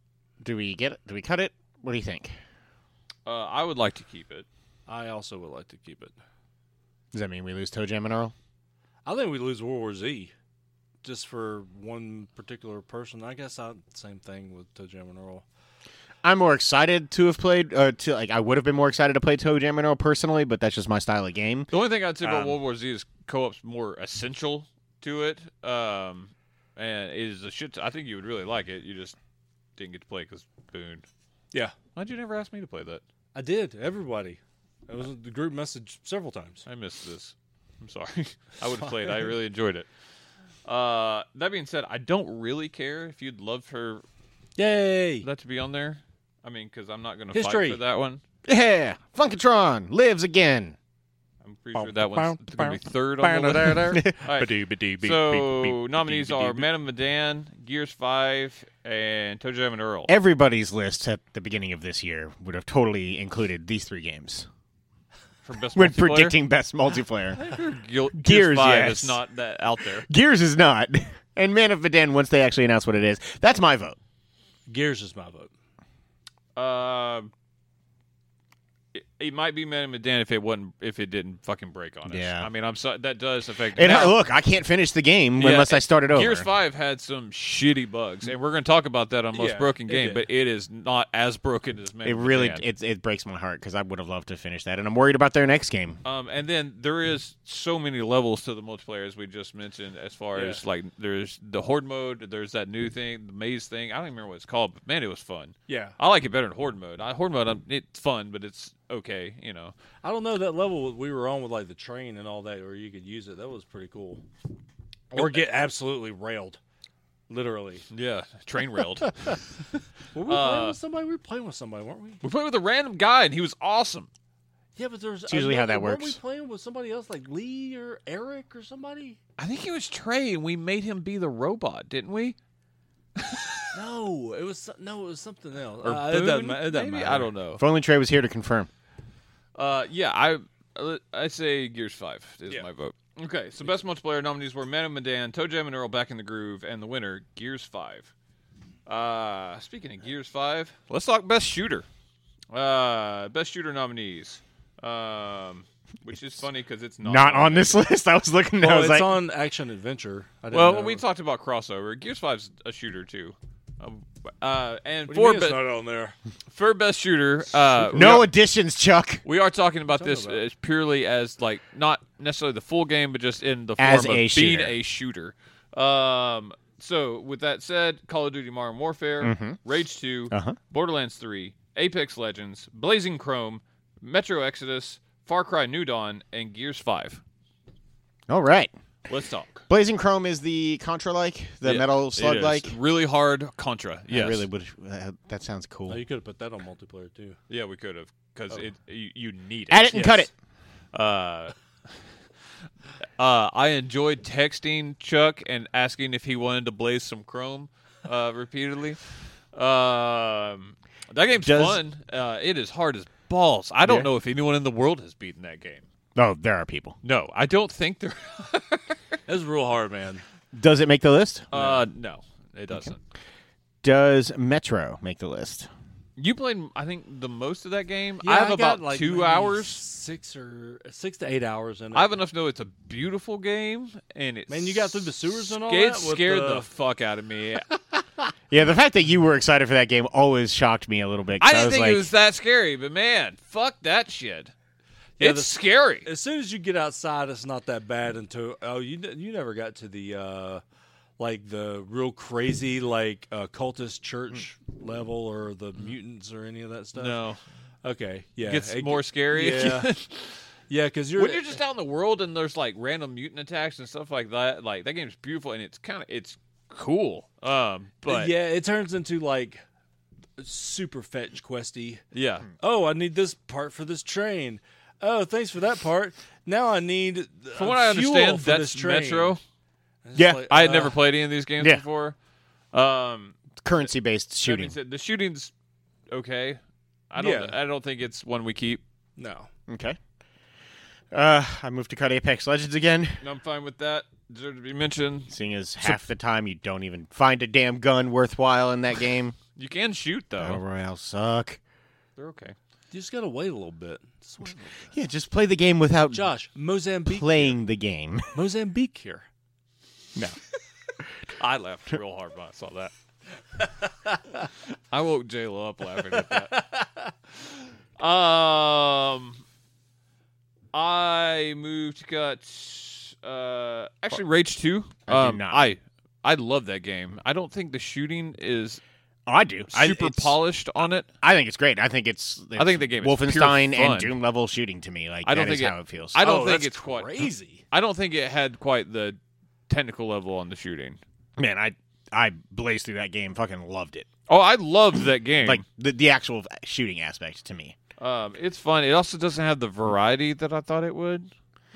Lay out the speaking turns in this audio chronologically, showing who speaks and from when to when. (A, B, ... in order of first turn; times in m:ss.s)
0:00.4-0:02.4 A
0:03.3-0:04.5 B
0:04.9-0:06.2 C
0:07.1-0:08.3 A
0:09.1-0:10.3 C
0:11.0-0:15.4 C
0:16.2-0:22.6 A
0:21.7-0:29.2 B
0:29.8-0:31.0 B
0:32.0-0:33.0 B
0:33.4-0:36.7 C
0:36.7-0:39.9 B
0:38.8-0:39.3 C
0:40.6-0:44.0 B
0:44.6-0:45.3 C
0:45.2-0:48.2 B
0:47.3-0:47.8 C
0:48.4-0:50.8 A
0:51.4-1:00.1 B
0:51.8-0:56.6 C
0:53.7-0:54.2 A
1:00.1-1:04.5 A
1:05.4-1:06.4 B
1:05.8-1:07.4 A
1:07.3-1:10.1 B
1:08.2-1:09.2 A
1:10.0-1:14.0 A
1:14.7-1:15.5 C
1:16.6-1:17.3 B
1:18.9-1:24.2 B
1:22.1-1:22.5 A
1:23.7-1:26.5 A
1:25.4-1:32.7 B
1:29.3-1:30.2 C
1:32.0-1:36.0 A
1:36.0-1:49.7 B
1:40.3-1:40.6 C
1:45.7-1:46.0 C
1:50.0-1:54.2 C
1:55.1-1:55.5 B
1:55.1-1:56.6 C
1:57.3-1:57.9 C
1:57.9-1:59.4 B
2:00.1-2:02.2 C
2:00.3-2:00.8 B
2:02.2-2:04.1 B
2:04.8-2:09.2 C
2:05.3-2:06.2 A
2:09.4-2:12.4 B
2:13.2-2:13.6 B
2:13.7-2:17.3 C
2:15.8-2:17.6 B
2:17.6-2:18.7 A
2:19.6-2:28.1 B
2:28.9-2:31.9 B
2:32.5-2:37.9 B
2:37.0-2:39.2 A
2:38.6-2:41.0 C
2:40.5-2:45.6 B
2:45.1-2:46.2 C
2:46.5-2:48.3 B
2:47.9-2:49.2 A
2:49.2-3:07.2 B
2:49.9-2:50.4 C
2:53.8-2:54.8 A
2:59.2-2:59.6 A
3:00.3-3:00.6 A
3:08.3-3:08.7 A
3:09.1-3:09.6 B
3:09.7-3:12.8 A
3:11.6-3:14.5 B
3:14.1-3:16.0 A
3:15.9-3:17.4 C
3:17.5-3:20.1 B
3:19.7-3:20.3 A
3:19.9-3:20.2 C
3:20.9-3:21.5 B
3:23.2-3:29.0 B
3:29.5-3:35.9 B
3:31.4-3:31.8 A
3:33.8-3:34.1 A
3:36.2-3:37.0 A
3:37.0-3:39.2 B
3:39.3-3:40.2 C
3:40.5-3:41.5 A
3:41.5-3:43.0 B
3:41.5-3:41.8 C
3:43.8-3:45.7 A
3:46.2-3:49.8 B
3:48.2-3:52.2 C
3:51.9-3:57.8 B
3:54.5-3:56.7 C
3:58.5-4:02.1 A
4:01.4-4:04.5 B
4:05.2-4:06.1 B
4:05.2-4:10.6 C
4:11.2-4:17.2 C
4:17.0-4:17.4 B
4:17.8-4:19.9 C
4:18.4-4:20.4 B
4:20.7-4:21.6 C
4:21.2-4:28.3 B
4:28.1-4:29.6 C
4:30.4-4:32.0 C
4:32.1-4:32.5 B
4:32.6-4:39.4 C
4:37.6-4:39.4 B
4:40.0-4:41.0 C
4:40.2-4:40.4 A
4:40.5-4:42.2 B
4:42.7-4:43.4 B
4:43.6-4:44.7 A
4:44.4-4:45.5 B
4:46.1-4:48.8 B
4:47.2-4:47.6 C
4:49.2-4:49.5 C
4:49.7-4:50.0 A
4:51.1-4:53.2 A
4:53.2-4:55.3 B
4:55.3-4:59.4 A
4:59.6-5:00.6 B
5:00.4-5:01.6 A
5:02.2-5:02.6 B
5:02.9-5:04.8 C
5:04.9-5:06.3 A
5:06.1-5:07.6 C
5:07.1-5:08.4 A
5:08.3-5:09.3 C
5:11.4-5:12.9 B
5:13.8-5:14.4 C
5:14.9-5:16.6 B
5:16.1-5:17.1 C
5:18.0-5:19.4 B
5:20.7-5:28.8 B
5:25.1-5:25.6 A
5:29.3-5:30.4 A
5:29.7-5:31.1 B
5:31.2-5:36.2 A
5:32.6-5:34.1 B
5:35.3-5:39.2 B
5:36.2-5:37.6 C
5:39.7-5:41.0 B
5:41.4-5:44.1 A
5:44.3-5:45.6 B
5:45.4-5:47.8 A
5:48.0-5:51.3 B